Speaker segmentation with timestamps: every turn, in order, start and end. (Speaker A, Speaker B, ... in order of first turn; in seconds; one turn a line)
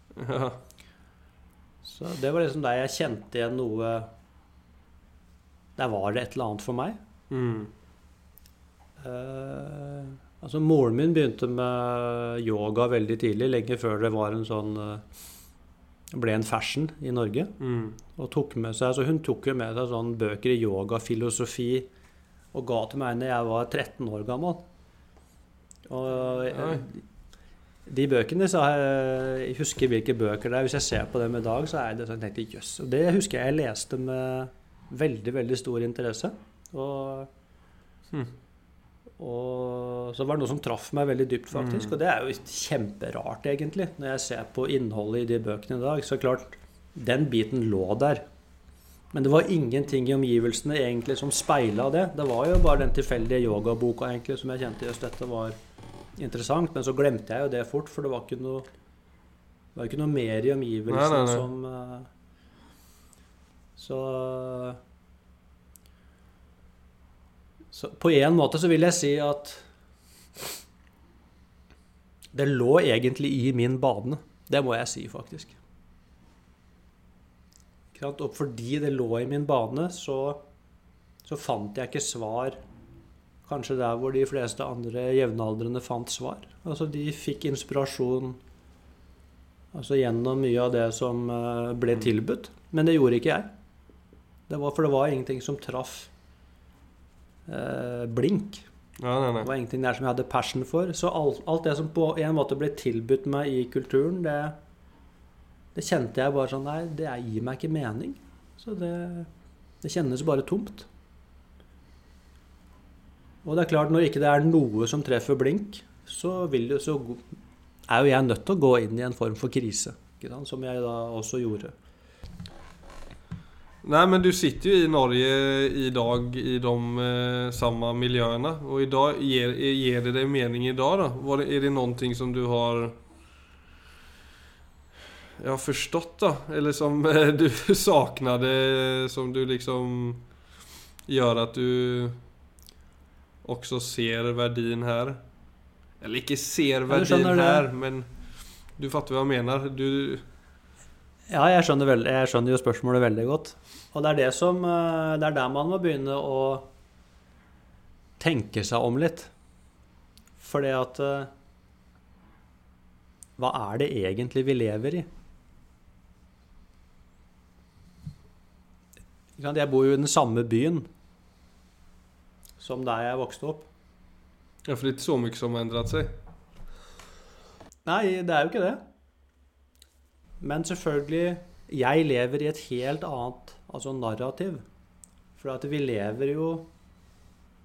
Speaker A: 0.1-0.6
Speaker B: 1.8-4.1
Speaker B: 5.8-7.0
Speaker A: 7.3-7.7
Speaker B: 9.0-15.0
Speaker B: 16.1-17.5
Speaker A: 17.6-18.0
Speaker B: 18.1-21.9
Speaker B: 22.5-24.6
Speaker B: 25.9-27.1
Speaker A: 26.5-26.8
Speaker B: 27.9-37.3
Speaker B: 39.2-48.3
Speaker A: 41.5-42.0
Speaker B: 49.1-55.6
Speaker B: 56.2-58.7
Speaker B: 59.8-62.1
Speaker A: 60.9-61.5
Speaker B: 63.8-64.8
Speaker B: 67.7-69.7
Speaker B: 72.3-75.6
Speaker B: 77.9-80.4
Speaker B: 81.2-82.6
Speaker B: 83.5-88.4
Speaker B: 89.7-93.5
Speaker B: 94.5-96.1
Speaker B: 97.5-98.7
Speaker A: 99.0-99.5
Speaker B: 99.4-104.6
Speaker B: 105.8-109.3
Speaker B: 109.8-110.9
Speaker B: 113.5-117.3
Speaker B: 117.9-121.7
Speaker A: 123.8-133.0
Speaker A: 135.4-140.3
Speaker A: 141.1-142.2
Speaker A: 143.4-145.2
Speaker A: 146.0-148.1
Speaker B: 146.9-147.7
Speaker A: 148.8-150.2
Speaker B: 151.3-156.7
Speaker B: 158.2-159.3
Speaker B: 160.4-161.3
Speaker B: 163.4-165.1
Speaker B: 169.4-170.9
Speaker B: 172.6-173.7
Speaker A: 174.7-176.2
Speaker B: 177.8-178.8
Speaker B: 180.4-184.6
Speaker B: 185.4-186.7